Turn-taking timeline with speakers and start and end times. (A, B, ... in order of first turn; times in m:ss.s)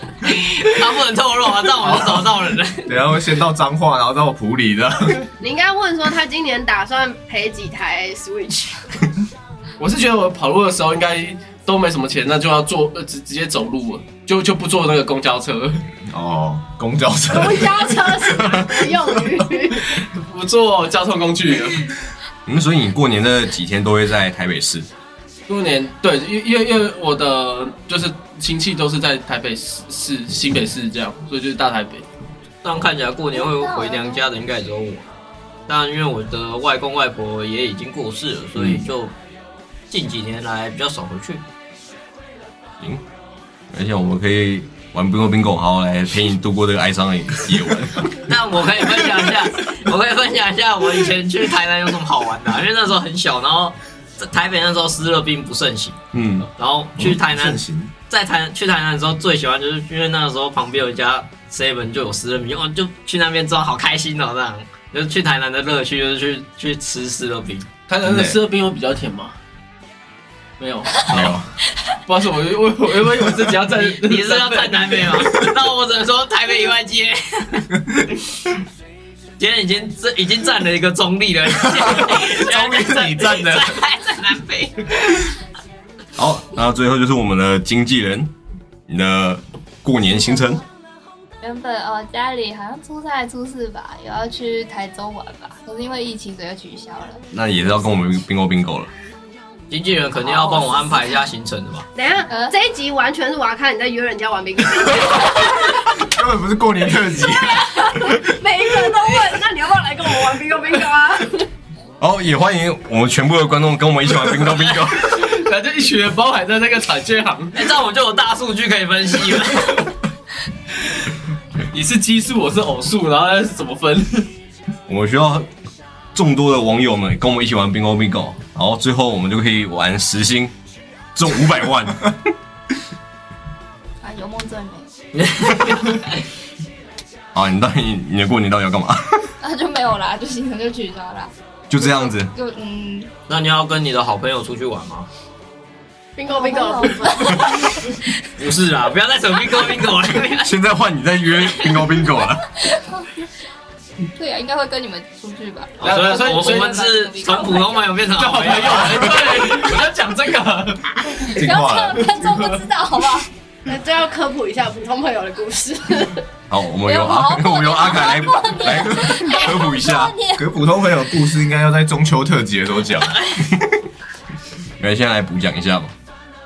0:00.2-0:03.0 A
0:01.8-0:02.3 B
0:02.9-0:05.3 B
0:05.4-0:09.0 C
0:09.8-0:15.9 D
0:16.0-0:18.4 B
0:17.3-0:20.0 C
0:19.9-0:21.9 D
0:22.5-0:24.9 E
0:25.5-0:32.1 D
0:32.6-0:35.1 A
0:33.3-0:34.3 F
0:35.7-0:39.1 A
0:38.6-0:38.9 E
0:39.9-0:41.4 A
0:43.7-0:48.1 E
0:48.2-0:56.0 A
0:56.1-0:57.9 B
0:56.2-0:56.4 E
0:56.6-1:07.7 A
1:07.9-1:09.4 D
1:08.0-1:08.4 B
1:10.6-1:11.1 D
1:11.1-1:11.4 E
1:11.1-1:11.4 B
1:12.1-1:15.5 D
1:13.6-1:17.7 A
1:19.4-1:25.2 A
1:21.7-1:23.8 B
1:26.2-1:28.3 E
1:28.9-1:30.6 E
1:31.4-1:37.2 F
1:37.3-1:38.9 E
1:39.7-1:41.9 A
1:40.4-1:40.7 C
1:42.0-1:46.0 C
1:46.0-1:48.2 B
1:47.5-1:51.5 C
1:52.0-1:55.2 E
1:55.1-1:57.6 D
1:57.6-2:00.0 A
2:01.7-2:04.3 D
2:04.9-2:05.5 E
2:06.1-2:10.5 E
2:11.2-2:12.2 E
2:14.0-2:14.9 F
2:15.2-2:16.2 A
2:17.3-2:19.3 E
2:19.4-2:23.1 F
2:21.7-2:22.3 E
2:23.3-2:25.1 A
2:26.2-2:27.8 C
2:26.3-2:28.1 F
2:28.4-2:30.5 A
2:30.4-2:32.5 E
2:31.5-2:31.8 A
2:32.6-2:33.2 F
2:34.2-2:38.1 F
2:35.8-2:39.3 A
2:35.8-2:36.8 D
2:38.1-2:41.4 D
2:41.2-2:43.3 F
2:41.4-2:42.1 B
2:42.1-2:42.6 D
2:43.7-2:46.2 C
2:46.5-2:50.2 E
2:46.8-2:50.5 F
2:50.3-2:53.2 B
2:54.8-2:55.9 E